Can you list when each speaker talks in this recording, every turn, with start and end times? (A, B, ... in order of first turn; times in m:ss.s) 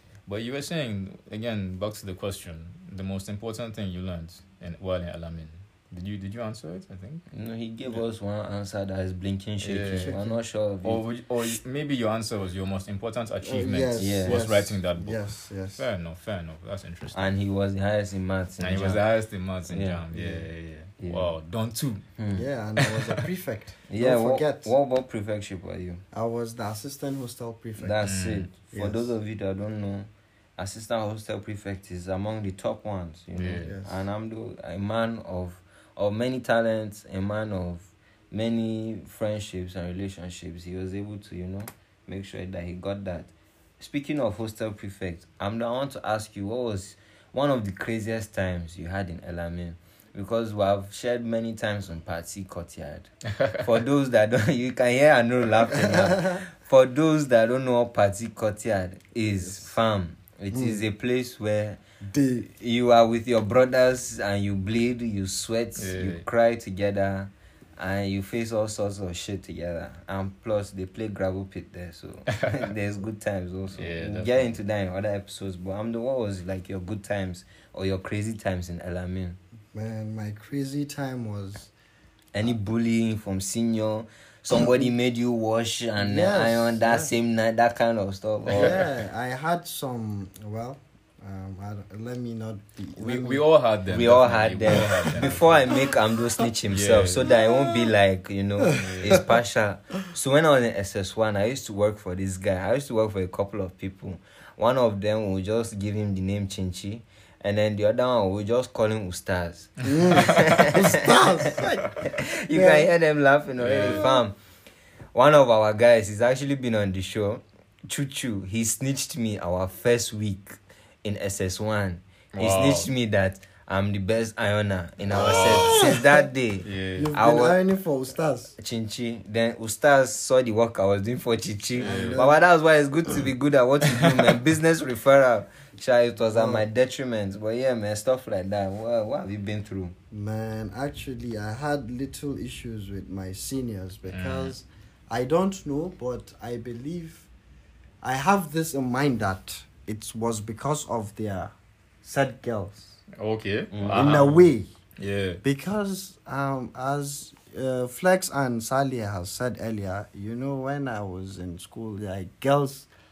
0:00.2-0:07.2 A
0:07.3-0:11.0 B
0:09.6-0:10.2 A
0:10.0-0:10.3 C
0:10.8-0:17.3 A
0:13.4-0:15.8 C
0:14.0-0:14.4 B
0:17.1-0:19.0 B
0:18.6-0:22.0 A
0:19.7-0:20.0 B
0:20.1-0:20.5 C
0:21.0-0:21.3 B
0:22.2-0:22.4 B
0:22.3-0:24.7 C
0:22.8-0:23.2 A
0:23.9-0:26.0 B
0:26.1-0:28.0 C
0:27.8-1:01.8 B
0:28.0-0:28.5 A
0:28.7-0:29.1 C
0:33.3-0:33.8 A
0:33.6-0:33.9 C
0:55.7-0:56.4 C
1:00.5-1:00.8 C
1:02.0-1:02.5 C
1:02.5-1:19.4 B
1:05.8-1:06.2 A
1:12.3-1:12.7 A
1:13.7-1:14.4 A
1:19.7-1:21.7 C
1:22.3-1:28.8 B
1:26.0-1:27.1 C
1:28.5-1:33.4 C
1:33.0-1:35.7 A
1:33.9-1:54.4 B
1:36.7-1:37.3 A
1:38.7-1:39.3 A
1:49.8-1:52.9 C
1:50.0-1:50.6 A
1:53.6-1:54.0 A
1:53.8-1:54.2 C
1:55.1-2:07.6 B
2:02.3-2:02.9 A
2:05.1-2:05.9 A
2:05.2-2:06.2 C
2:06.6-2:07.1 A
2:07.0-2:08.5 C
2:08.6-2:19.9 B
2:11.8-2:12.2 A
2:11.8-2:12.4 C
2:13.9-2:14.3 A
2:16.3-2:16.6 C
2:20.1-2:27.3 C
2:24.1-2:24.5 A
2:28.0-2:33.0 C
2:33.2-2:35.4 A
2:33.7-2:34.2 B
2:33.9-2:34.7 C
2:35.4-2:42.9 C